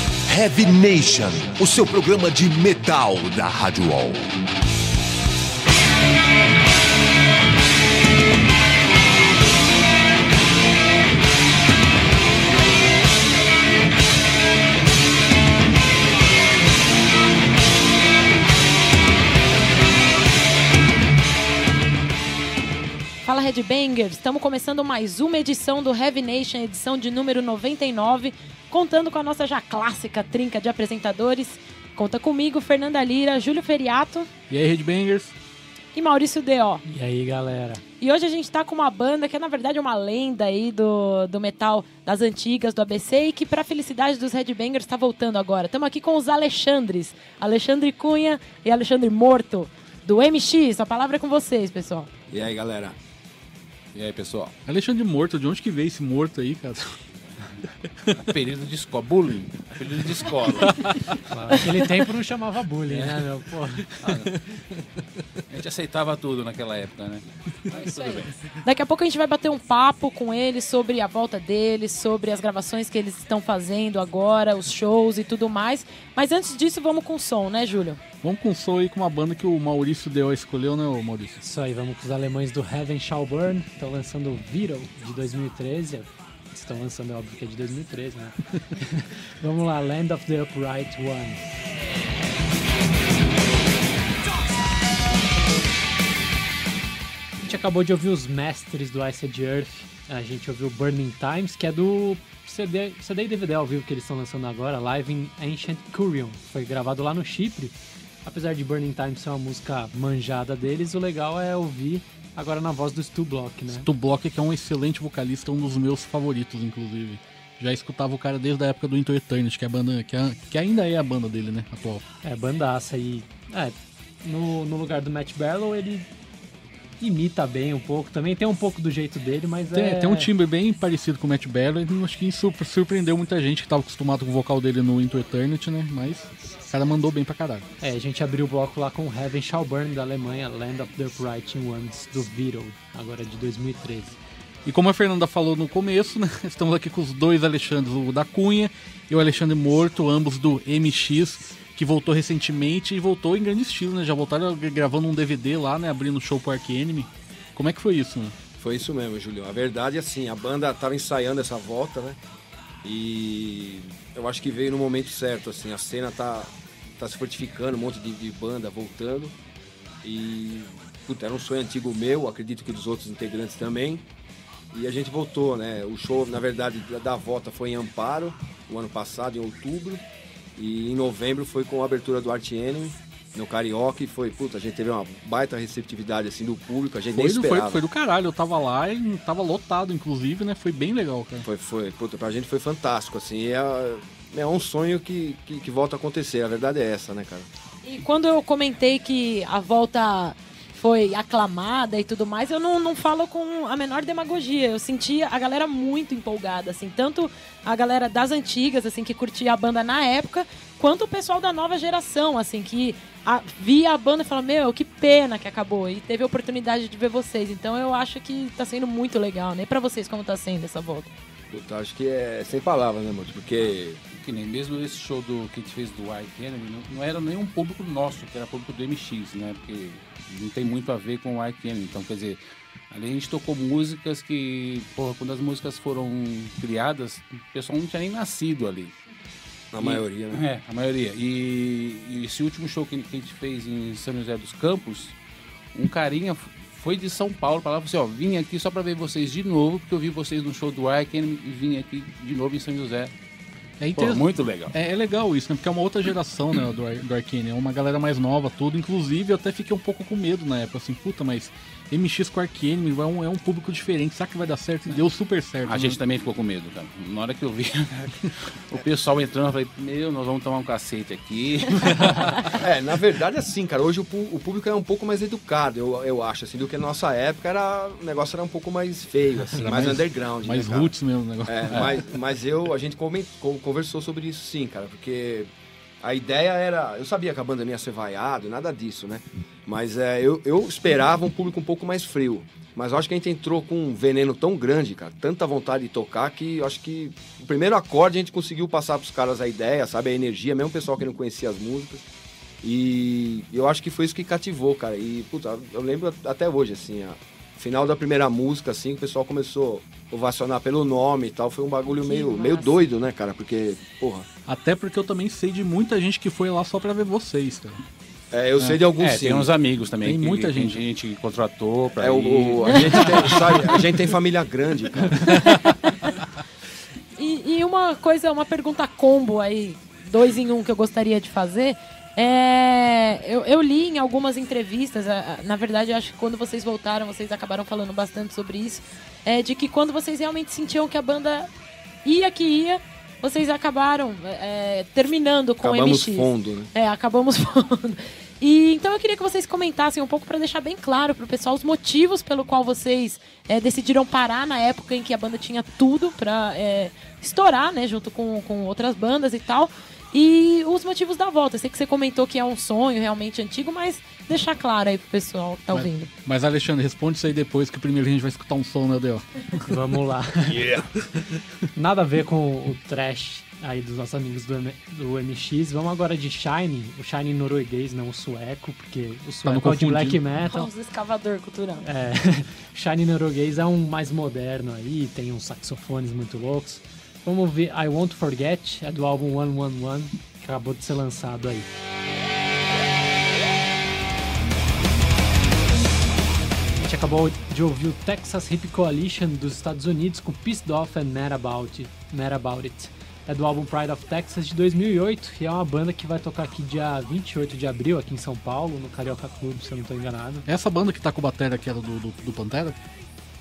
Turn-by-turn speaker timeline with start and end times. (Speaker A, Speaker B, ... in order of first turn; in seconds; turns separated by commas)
Speaker A: 0.3-4.3, Speaker B: 23.2-34.3, Speaker C: 34.5-35.3, Speaker B: 35.9-36.8, Speaker D: 36.9-37.8, Speaker B: 38.0-52.1, Speaker E: 52.3-52.9, Speaker F: 53.9-54.5, Speaker C: 54.6-56.9, Speaker F: 58.1-60.7, Speaker C: 60.6-61.1, Speaker D: 61.3-64.3, Speaker F: 64.0-64.3, Speaker F: 65.5-68.3, Speaker B: 67.7-78.0, Speaker C: 78.2-81.4, Speaker D: 81.4-91.5, Speaker D: 97.4-113.9, Speaker C: 113.7-122.0, Speaker D: 122.2-126.1, Speaker D: 127.0-130.3, Speaker C: 129.7-137.7, Speaker D: 137.8-144.2, Speaker C: 144.6-158.3, Speaker E: 158.6-162.2, Speaker E: 162.8-169.3, Speaker E: 170.0-174.0, Speaker E: 174.7-180.0, Speaker E: 180.6-187.8, Speaker C: 187.2-191.4, Speaker E: 191.4-197.5, Speaker B: 197.8-221.1, Speaker E: 221.5-224.0, Speaker F: 224.1-238.9, Speaker E: 239.7-240.4, Speaker F: 239.8-245.2, Speaker F: 245.7-253.1, Speaker C: 253.8-266.0, Speaker F: 253.9-254.7, Speaker F: 265.6-272.4, Speaker E: 272.5-280.9, Speaker C: 279.6-282.0, Speaker E: 281.4-285.5, Speaker F: 281.7-282.0, Speaker E: 286.0-302.0, Speaker E: 302.6-314.2, Speaker B: 311.9-312.7, Speaker C: 314.5-317.8, Speaker E: 318.3-319.5, Speaker F: 319.0-323.6, Speaker C: 320.0-320.8, Speaker E: 322.0-325.3, Speaker B: 322.7-322.9, Speaker B: 325.2-326.2, Speaker C: 325.3-325.6, Speaker B: 327.2-341.5, Speaker B: 342.0-366.1, Speaker E: 345.6-346.7, Speaker C: 365.7-369.6, Speaker D: 369.6-370.7, Speaker A: 370.6-370.9, Speaker D: 371.7-380.7, Speaker C: 379.4-380.2, Speaker B: 380.4-381.9, Speaker D: 381.8-391.7, Speaker D: 396.8-410.4, Speaker C: 410.5-412.8